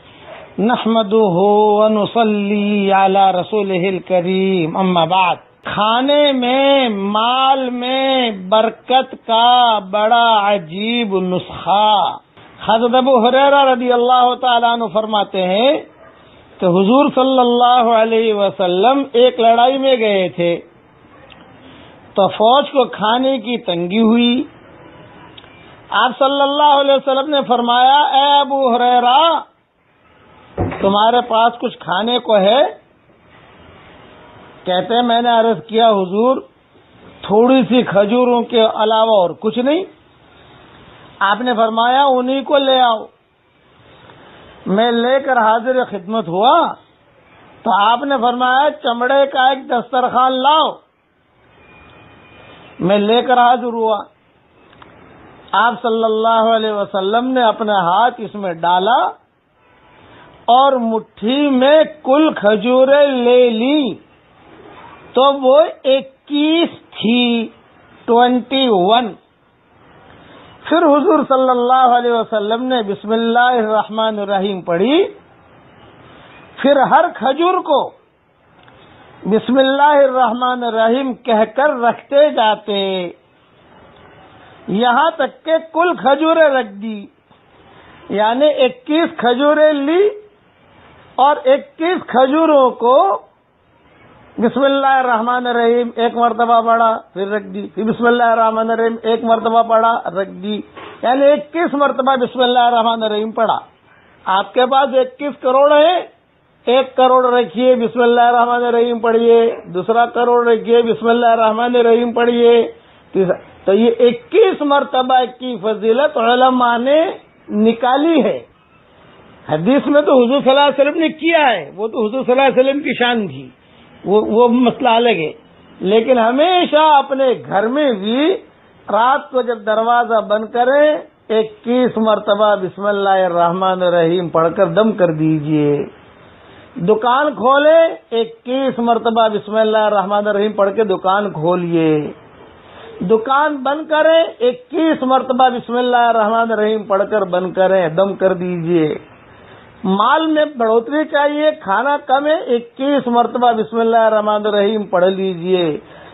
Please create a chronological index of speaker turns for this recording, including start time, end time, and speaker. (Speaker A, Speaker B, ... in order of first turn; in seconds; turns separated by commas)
Speaker A: 0.6-15.8, Speaker A: 16.6-20.6, Speaker A: 22.1-24.5, Speaker A: 25.9-29.4, Speaker A: 30.8-32.6, Speaker A: 34.6-36.4, Speaker A: 37.2-39.9, Speaker A: 41.2-43.1, Speaker A: 44.7-46.7, Speaker A: 47.6-50.8, Speaker A: 52.8-54.0, Speaker A: 55.5-59.0, Speaker A: 60.5-64.0, Speaker A: 65.1-67.5, Speaker A: 68.0-69.1, Speaker A: 70.7-75.1, Speaker A: 76.6-77.9, Speaker A: 79.3-83.1, Speaker A: 84.7-87.1, Speaker A: 88.1-90.1, Speaker A: 91.2-93.2, Speaker A: 94.4-103.6, Speaker A: 104.3-106.0, Speaker A: 106.7-118.4, Speaker A: 119.5-123.5, Speaker A: 124.0-125.3, Speaker A: 125.8-128.4, Speaker A: 128.9-135.8, Speaker A: 136.8-142.1, Speaker A: 143.0-148.9, Speaker A: 149.9-155.8